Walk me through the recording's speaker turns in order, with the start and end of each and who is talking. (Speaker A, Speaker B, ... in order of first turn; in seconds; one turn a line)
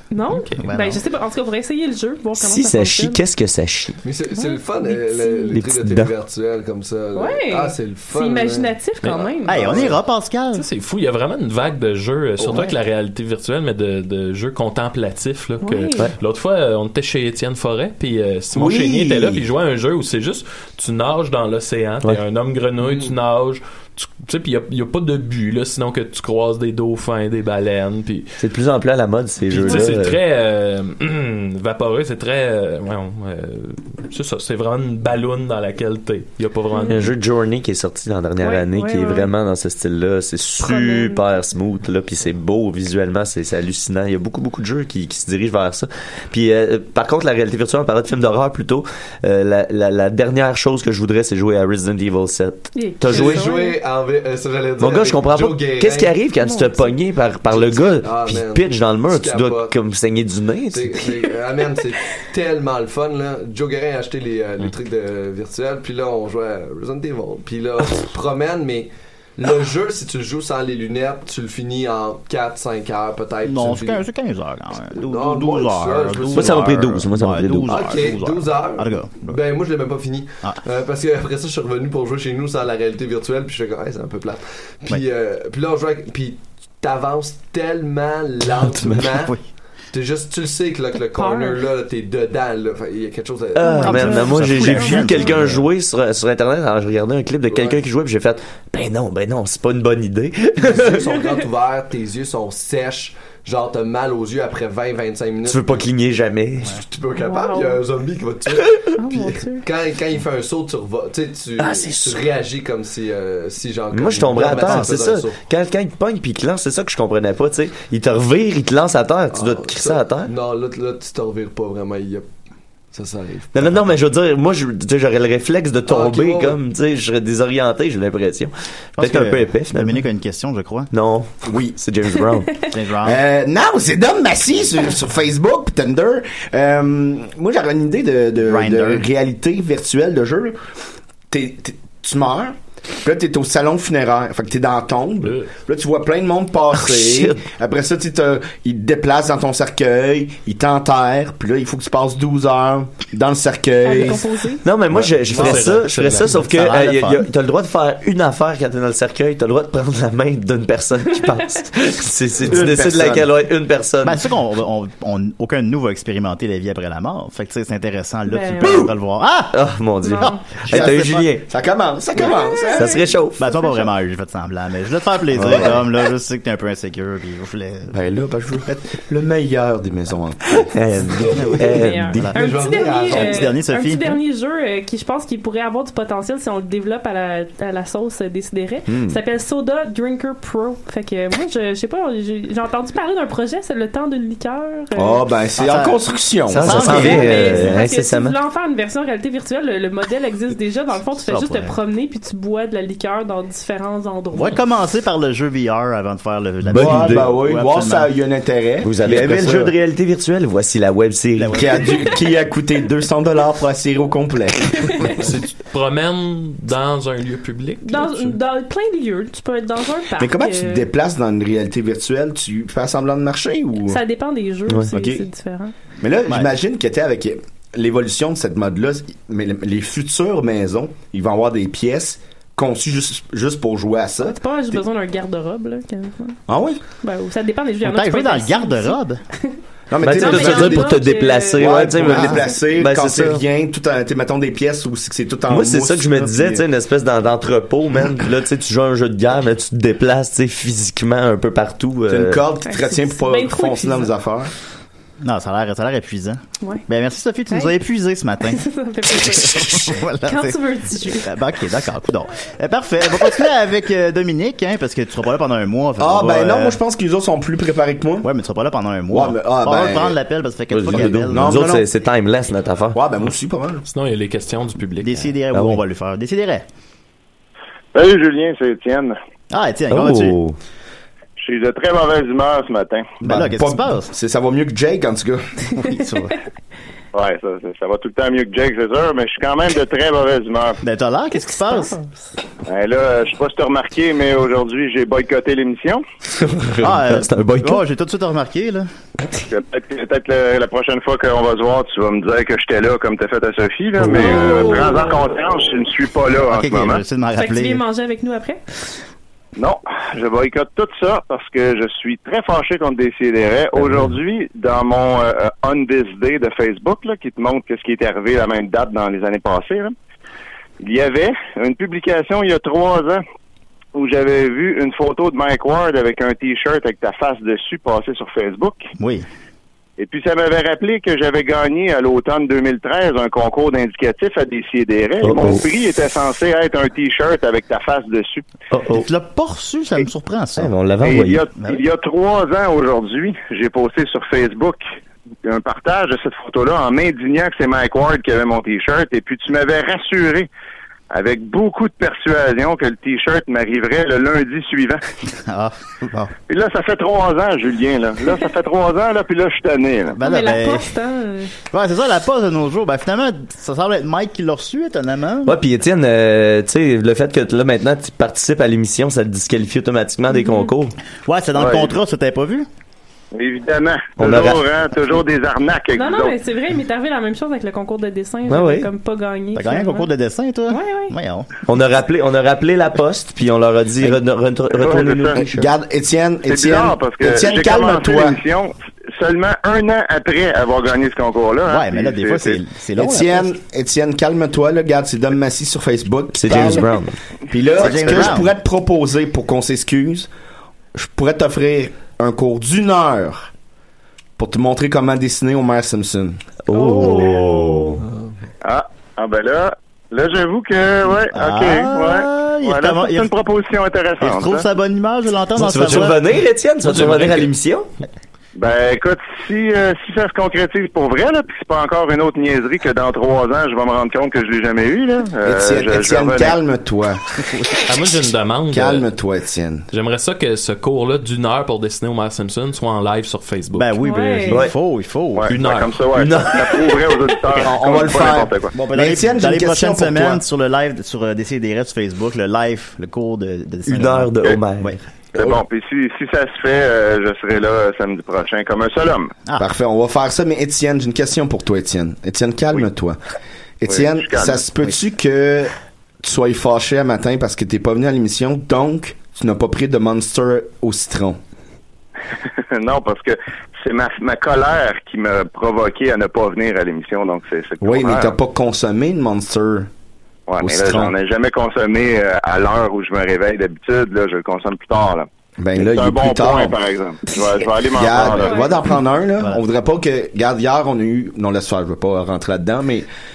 Speaker A: 0.1-3.2
Speaker B: 0.6-1.0
Speaker C: 2.4-4.0
Speaker D: 4.0-8.7
Speaker A: 4.3-5.5
Speaker C: 5.5-6.1
Speaker A: 7.2-9.9
Speaker B: 9.5-10.7
Speaker E: 10.5-28.3
Speaker A: 15.6-16.1
Speaker F: 18.6-19.4
Speaker D: 22.8-23.1
Speaker C: 28.4-30.2
Speaker E: 29.5-37.1
Speaker A: 29.7-29.9
Speaker A: 36.7-37.0
Speaker C: 36.9-53.5
Speaker A: 38.4-39.3
Speaker A: 40.6-41.3
Speaker A: 52.7-53.8
Speaker D: 53.1-56.1
Speaker C: 54.8-61.1
Speaker A: 56.4-57.0
Speaker D: 57.5-59.7
Speaker D: 60.7-74.0
Speaker B: 73.4-79.4
Speaker D: 75.0-76.8
Speaker C: 76.3-77.9
Speaker D: 77.7-89.4
Speaker C: 88.7-89.2
Speaker D: 89.9-94.3
Speaker A: 91.1-91.6
Speaker C: 93.5-101.1
Speaker A: 93.6-95.4
Speaker B: 93.9-95.7
Speaker D: 97.5-97.8
Speaker D: 100.6-105.8
Speaker C: 105.5-106.8
Speaker D: 106.7-115.4
Speaker A: 107.2-107.8
Speaker A: 109.0-109.7
Speaker C: 111.6-112.2
Speaker C: 113.9-120.3
Speaker B: 114.5-114.9
Speaker D: 119.3-122.2
Speaker D: 122.9-123.8
Speaker C: 123.5-130.0
Speaker D: 125.8-126.6
Speaker B: 129.0-130.9
Speaker C: 130.9-132.7
Speaker F: 131.5-131.7
Speaker B: 132.7-133.2
Speaker F: 133.0-140.6
Speaker B: 138.4-139.1
Speaker F: 141.3-154.3
Speaker E: 145.2-145.5
Speaker C: 146.7-147.4
Speaker A: 153.8-154.7
Speaker C: 154.6-164.2
Speaker E: 155.2-156.5
Speaker B: 156.3-157.3
Speaker F: 162.5-163.3
Speaker B: 164.0-169.6
Speaker A: 168.3-168.9
Speaker C: 168.6-168.9
Speaker C: 169.5-171.5
Speaker A: 170.0-170.4
Speaker B: 170.2-171.2
Speaker F: 170.7-173.0
Speaker A: 172.2-173.9
Speaker C: 172.7-173.4
Speaker B: 173.4-178.0
Speaker F: 175.4-175.8
Speaker F: 177.9-180.7
Speaker C: 180.7-182.3
Speaker A: 181.6-195.2
Speaker D: 182.3-183.5
Speaker B: 183.1-184.2
Speaker F: 188.9-189.2
Speaker F: 195.0-197.3
Speaker B: 195.6-196.0
Speaker C: 196.5-198.4
Speaker B: 196.6-197.7
Speaker A: 196.8-204.6
Speaker B: 201.3-201.8
Speaker B: 204.3-208.1
Speaker C: 206.7-207.3
Speaker F: 206.7-209.7
Speaker C: 208.8-211.7
Speaker B: 209.2-209.6
Speaker B: 211.4-212.1
Speaker F: 211.6-215.2
Speaker E: 215.2-218.4
Speaker A: 217.8-220.9
Speaker F: 220.2-224.0
Speaker A: 223.9-225.7
Speaker F: 224.9-225.2
Speaker F: 226.0-234.8
Speaker A: 234.2-236.4
Speaker F: 236.5-236.8
Speaker A: 237.0-242.5
Speaker B: 237.8-239.2
Speaker F: 239.9-241.1
Speaker C: 240.0-243.4
Speaker F: 241.6-246.6
Speaker C: 245.5-252.4
Speaker F: 252.1-254.5
Speaker A: 252.7-254.1
Speaker B: 255.2-266.8
Speaker A: 258.5-261.3
Speaker F: 266.0-268.3
Speaker B: 268.2-271.7
Speaker F: 269.1-270.2
Speaker C: 270.7-273.0
Speaker F: 271.0-271.9
Speaker F: 272.9-273.8
Speaker E: 273.9-275.3
Speaker B: 275.0-276.6
Speaker C: 275.5-275.8
Speaker G: 277.9-279.2
Speaker B: 279.5-280.4
Speaker C: 279.9-280.6
Speaker G: 281.4-283.1
Speaker F: 283.2-285.5
Speaker B: 283.2-284.1
Speaker B: 285.8-286.3
Speaker G: 287.1-290.8
Speaker B: 290.8-292.0
Speaker A: 291.5-292.1
Speaker G: 292.7-296.0
Speaker C: 296.4-297.8
Speaker B: 296.8-298.9
Speaker G: 299.5-307.0
Speaker A: 304.1-305.1
Speaker B: 306.5-307.8
Speaker A: 307.4-308.6
Speaker G: 309.6-319.9
Speaker G: 320.8-323.2
Speaker G: 323.9-328.8
Speaker B: 329.0-329.3
Speaker G: 330.0-338.5
Speaker C: 335.2-335.6
Speaker C: 338.7-339.1
Speaker B: 338.9-340.7
Speaker C: 340.6-341.5
Speaker G: 341.0-344.8
Speaker G: 345.4-350.5
Speaker G: 351.1-355.0
Speaker B: 355.4-356.3
Speaker G: 356.5-360.2
Speaker B: 360.2-360.9
Speaker A: 360.2-361.5
Speaker B: 361.7-365.6
Speaker C: 365.4-371.0
Speaker A: 370.3-370.7
Speaker B: 371.2-372.7
Speaker G: 371.6-371.9
Speaker G: 373.3-376.4
Speaker C: 374.2-374.6
Speaker A: 375.9-380.1
Speaker C: 378.5-378.9
Speaker B: 379.6-381.5
Speaker A: 380.7-381.1
Speaker C: 381.7-385.7
Speaker G: 384.7-385.4
Speaker F: 385.4-388.4
Speaker G: 386.5-392.6
Speaker B: 391.7-393.6
Speaker F: 392.9-396.9
Speaker C: 396.3-397.1
Speaker F: 397.5-400.3
Speaker B: 397.8-398.6
Speaker F: 400.9-403.5
Speaker F: 404.4-406.4
Speaker C: 406.7-408.0
Speaker A: 406.7-408.0
Speaker D: 408.0-408.3
Speaker G: 408.6-414.7
Speaker B: 411.3-413.3
Speaker B: 414.2-416.2
Speaker C: 415.6-417.9
Speaker E: 416.8-417.5
Speaker G: 418.6-426.6
Speaker F: 425.4-427.2
Speaker E: 427.9-429.1
Speaker F: 428.7-429.9
Speaker E: 429.9-433.9
Speaker B: 433.8-435.5
Speaker A: 434.0-434.7
Speaker C: 434.5-434.8
Speaker G: 435.3-438.7
Speaker E: 435.5-436.0
Speaker C: 436.1-437.1
Speaker F: 437.6-440.4
Speaker B: 438.8-445.0
Speaker C: 443.9-445.0
Speaker G: 445.4-449.3
Speaker F: 449.6-453.2
Speaker F: 453.8-455.7
Speaker G: 453.9-454.6
Speaker F: 456.2-461.4
Speaker G: 462.6-468.4
Speaker F: 467.8-469.9
Speaker G: 470.5-478.7
Speaker F: 470.6-471.1
Speaker F: 475.6-476.8
Speaker F: 477.9-483.1
Speaker A: 478.3-478.8